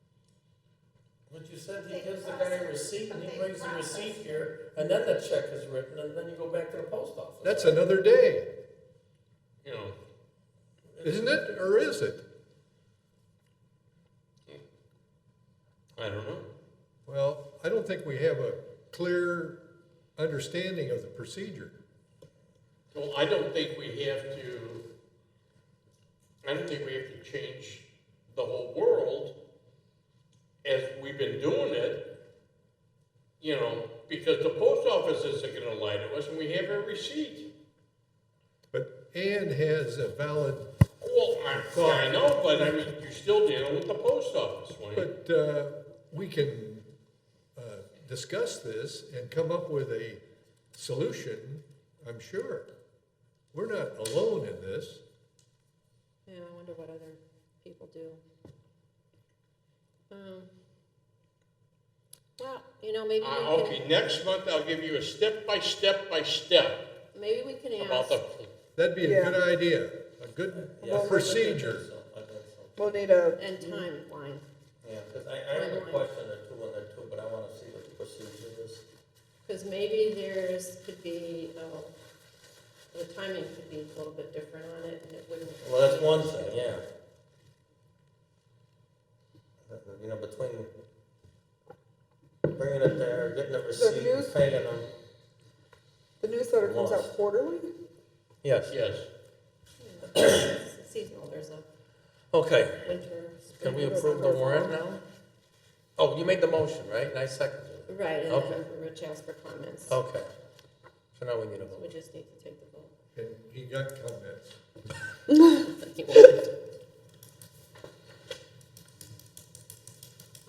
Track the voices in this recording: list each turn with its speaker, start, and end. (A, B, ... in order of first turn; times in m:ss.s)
0:01.3-0:07.8 A
0:07.4-0:08.5 B
0:09.6-0:10.0 C
0:10.9-0:11.5 A
0:11.0-0:12.2 B
0:16.0-0:16.5 C
0:17.0-0:19.6 B
0:20.2-0:21.8 B
0:22.9-0:24.9 C
0:26.4-0:29.4 C
0:30.6-0:32.2 C
0:33.4-0:37.5 C
0:38.7-0:40.7 B
0:41.0-0:45.1 C
0:41.6-0:42.8 B
0:44.9-0:46.9 B
0:47.6-0:50.2 B
0:50.7-0:52.7 B
0:53.5-0:55.0 B
0:56.2-0:58.2 D
1:00.1-1:00.5 D
1:02.4-1:03.9 D
1:03.2-1:06.9 C
1:07.1-1:08.2 D
1:07.8-1:08.5 C
1:08.8-1:11.8 B
1:09.0-1:09.4 E
1:10.5-1:12.9 A
1:10.8-1:11.4 E
1:12.8-1:13.8 E
1:13.4-1:14.4 D
1:14.8-1:18.8 A
1:15.5-1:16.1 D
1:19.4-1:21.9 D
1:22.9-1:26.7 D
1:25.6-1:26.8 A
1:29.6-1:30.7 A
1:32.5-1:34.9 A
1:33.7-1:34.4 E
1:36.2-1:37.7 E
1:36.6-1:37.1 A
1:38.4-1:38.7 A
1:38.7-1:39.1 C
1:39.8-1:41.6 D
1:42.3-1:42.9 A
1:42.8-1:44.8 D
1:43.6-1:45.0 A
1:43.7-1:44.7 E
1:46.0-1:48.6 A
1:47.9-1:50.0 D
1:49.9-1:50.3 A
1:51.1-1:51.9 A
1:51.6-1:52.9 D
1:53.1-1:54.5 B
1:55.4-1:55.6 E
1:55.6-1:56.5 D